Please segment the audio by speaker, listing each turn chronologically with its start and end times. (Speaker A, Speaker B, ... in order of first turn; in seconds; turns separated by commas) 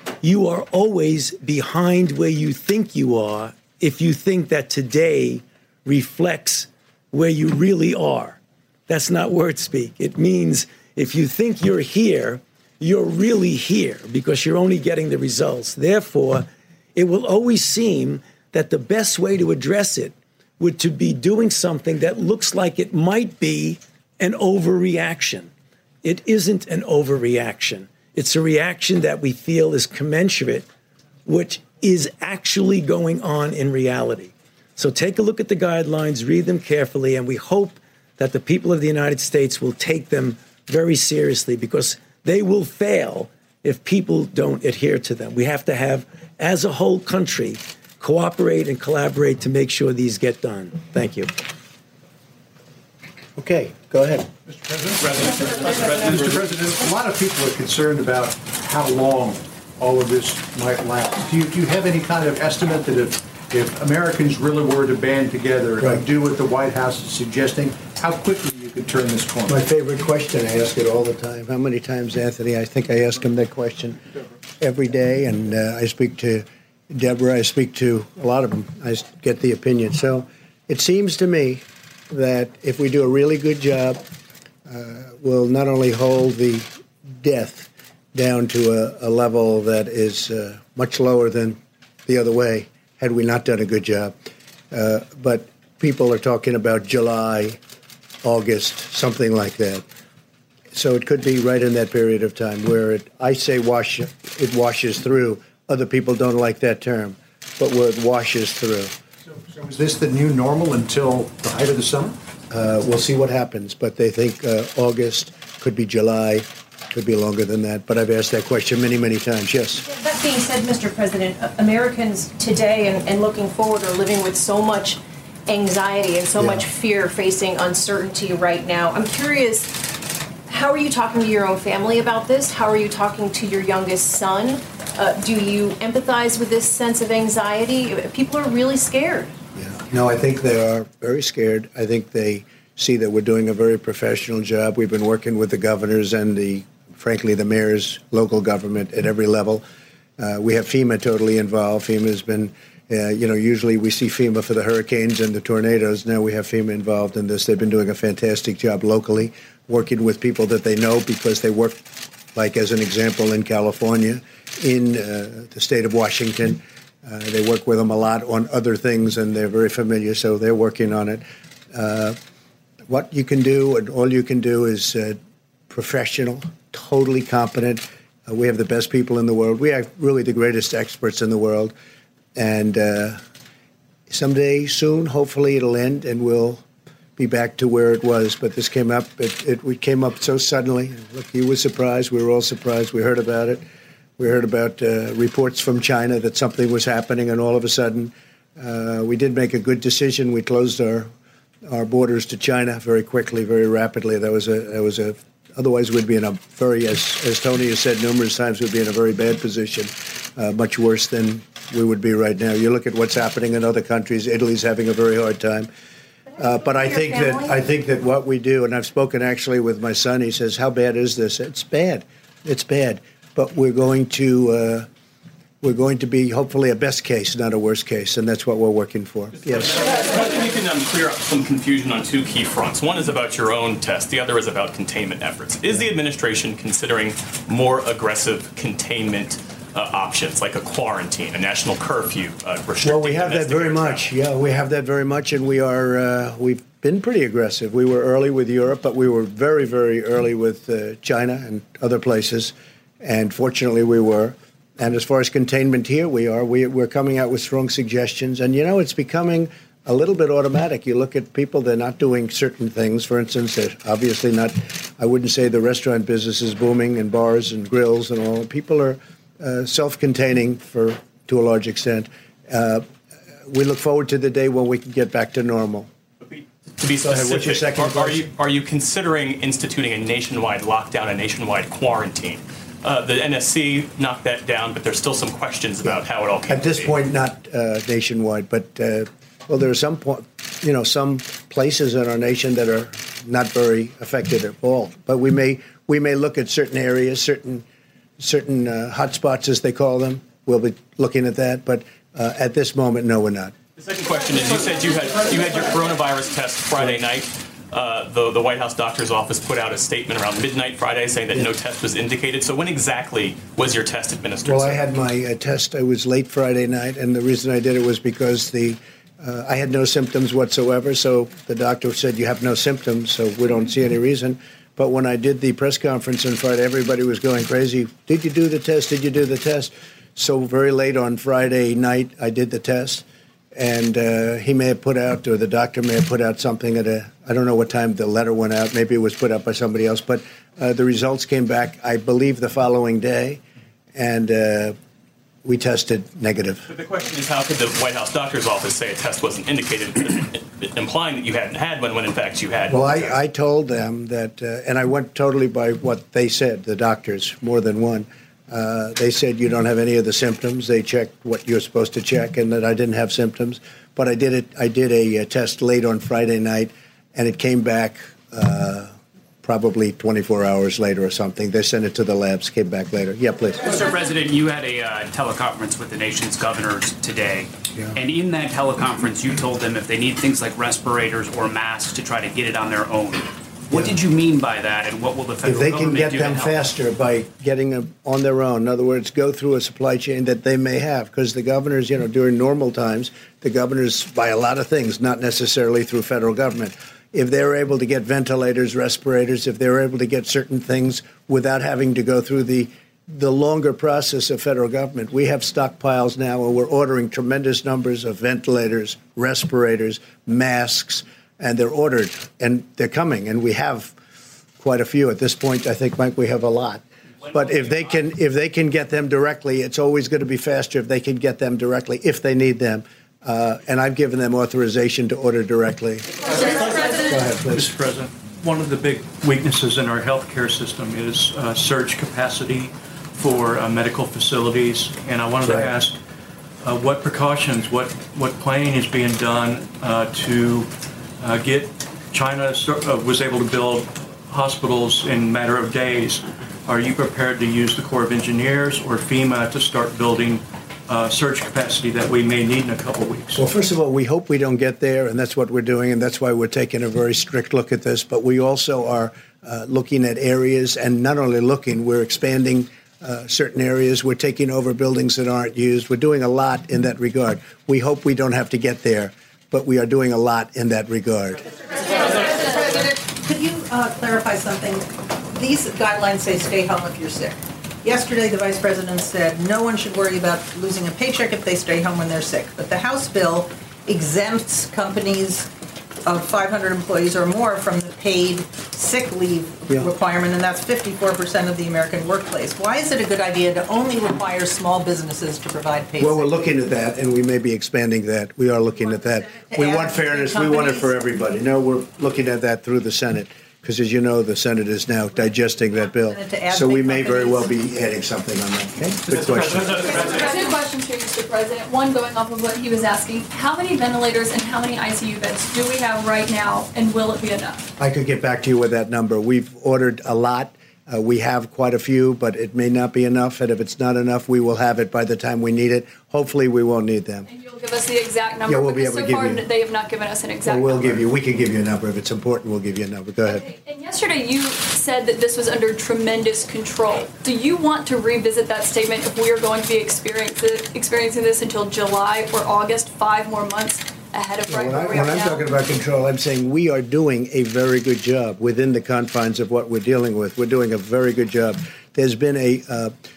Speaker A: 0.2-25.5, Speaker A: 26.0-30.7, Speaker A: 31.2-51.3, Speaker B: 53.4-54.3, Speaker C: 54.5-69.6, Speaker B: 65.8-66.1, Speaker B: 69.5-74.0, Speaker B: 74.6-84.0, Speaker B: 84.7-86.7, Speaker B: 87.2-94.1, Speaker B: 94.7-97.6, Speaker B: 98.2-99.8, Speaker B: 100.7-108.9, Speaker C: 109.5-112.2, Speaker B: 112.5-119.8, Speaker D: 119.8-129.8, Speaker B: 126.4-126.6, Speaker D: 130.5-139.3, Speaker B: 139.6-149.6, Speaker B: 150.2-161.8, Speaker B: 162.3-172.2, Speaker B: 172.9-175.2, Speaker B: 175.7-181.7, Speaker B: 182.3-183.2, Speaker B: 184.1-186.6, Speaker B: 187.2-193.6, Speaker B: 194.2-201.1, Speaker B: 201.7-215.7, Speaker B: 216.4-224.9, Speaker B: 225.6-229.9, Speaker E: 229.7-244.1, Speaker B: 242.8-272.9, Speaker B: 273.5-275.9, Speaker E: 276.2-286.9, Speaker B: 277.0-278.3, Speaker B: 286.5-297.6, Speaker B: 298.2-303.6, Speaker E: 303.8-314.9, Speaker B: 306.8-307.0, Speaker B: 314.4-343.4, Speaker B: 343.9-344.8, Speaker B: 345.4-346.7, Speaker E: 346.7-353.2, Speaker B: 352.7-368.9, Speaker B: 369.4-373.8, Speaker F: 373.6-386.6, Speaker B: 385.4-413.9, Speaker B: 414.6-427.8, Speaker F: 417.3-417.9, Speaker G: 426.3-436.0, Speaker G: 436.6-440.7, Speaker G: 441.2-453.4, Speaker B: 453.3-471.4, Speaker H: 472.1-485.5, Speaker H: 486.1-496.3, Speaker B: 496.0-510.1, Speaker H: 499.5-500.9, Speaker H: 506.1-507.5, Speaker G: 509.5-509.9, Speaker I: 509.9-517.7, Speaker B: 517.8-527.3, Speaker I: 527.3-531.0, Speaker B: 528.5-529.4, Speaker B: 530.4-533.4, Speaker I: 533.3-545.5, Speaker B: 544.5-552.9